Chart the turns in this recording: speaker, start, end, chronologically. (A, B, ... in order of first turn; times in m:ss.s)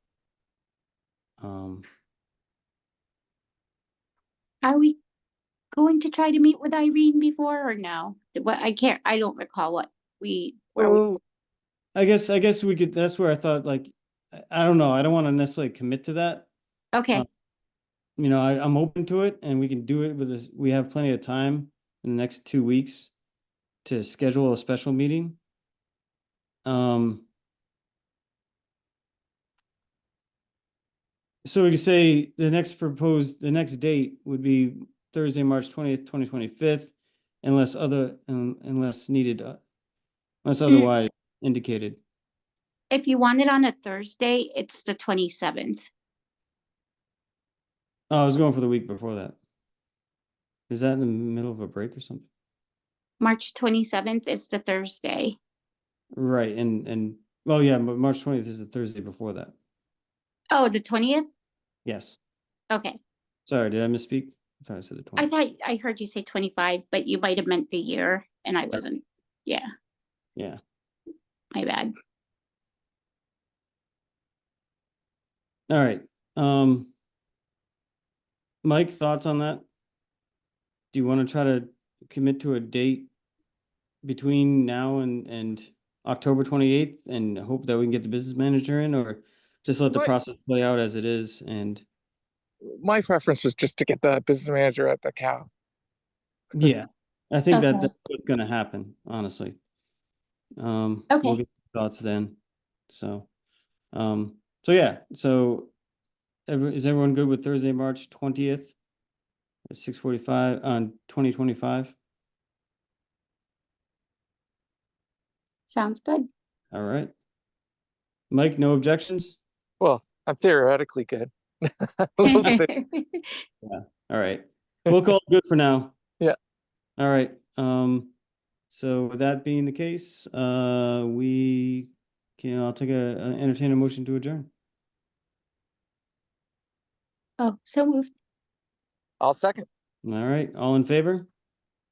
0:01.4-0:01.8 A
0:04.6-0:05.0 B
0:05.7-0:11.0 B
0:11.9-0:16.5 A
0:16.9-0:17.2 B
0:18.2-0:23.1 A
0:23.8-0:25.4 A
0:26.6-0:27.2 A
0:31.4-0:39.6 A
0:40.4-0:42.0 A
0:42.9-0:45.9 B
0:48.1-0:49.4 A
0:50.7-0:52.3 A
0:53.2-0:55.4 B
0:56.2-0:59.5 A
1:00.5-1:01.3 B
1:01.8-1:02.2 A
1:02.7-1:03.0 B
1:03.4-1:05.3 A
1:05.2-1:09.6 B
1:11.5-1:11.9 B
1:15.7-1:16.9 A
1:18.6-1:19.6 A
1:20.9-1:23.1 A
1:24.0-1:31.8 A
1:32.6-1:35.5 C
1:36.5-1:39.6 A
1:37.5-1:37.9 B
1:40.6-1:42.4 A
1:41.1-1:41.4 B
1:42.9-1:43.3 A
1:43.9-1:45.7 A
1:46.5-1:48.7 A
1:49.7-1:52.0 A
1:55.7-1:56.3 B
1:56.7-1:57.1 A
1:58.3-1:59.4 A
1:59.8-2:02.7 C
2:02.2-2:03.4 B
2:03.6-2:06.0 A
2:07.0-2:08.1 A
2:08.7-2:14.5 A
2:17.4-2:18.1 B
2:19.2-2:19.7 C
2:20.0-2:21.3 A